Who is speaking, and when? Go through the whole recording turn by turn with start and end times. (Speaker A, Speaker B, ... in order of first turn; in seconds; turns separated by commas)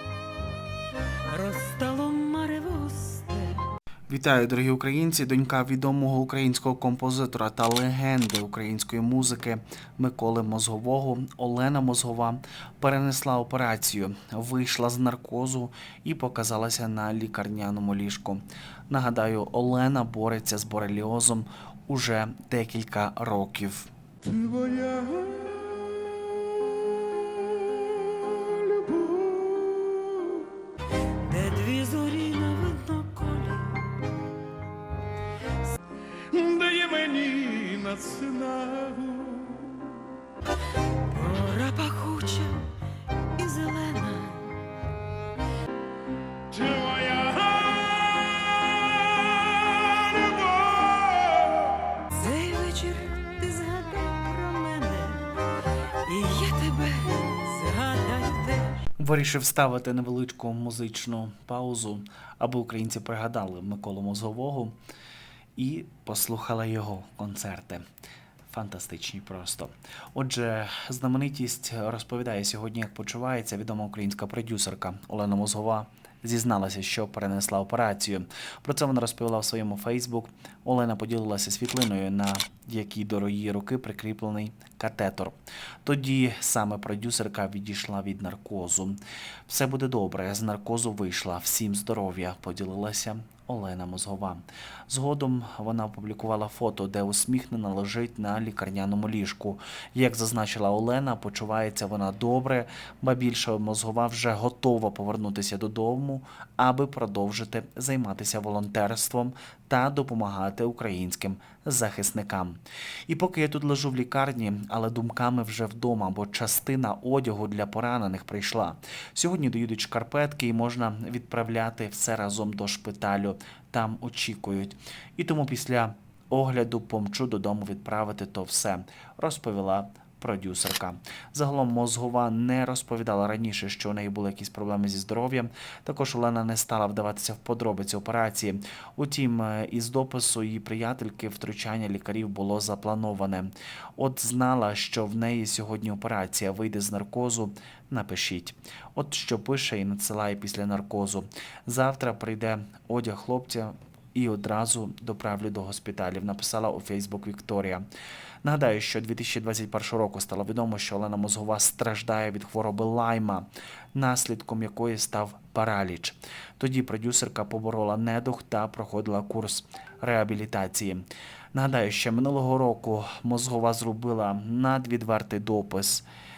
Speaker A: 1.3-3.6, Speaker B: 4.1-23.9, Speaker A: 24.8-25.3, Speaker C: 28.7-29.7, Speaker A: 29.8-30.4, Speaker A: 31.2-34.1, Speaker C: 36.4-39.6, Speaker A: 41.1-42.7, Speaker A: 43.3-44.6, Speaker C: 46.5-48.3, Speaker A: 49.2-51.2, Speaker A: 52.1-55.3, Speaker A: 56.0-58.8, Speaker B: 59.0-64.7, Speaker B: 65.5-67.8, Speaker B: 68.5-157.8, Speaker B: 158.4-176.1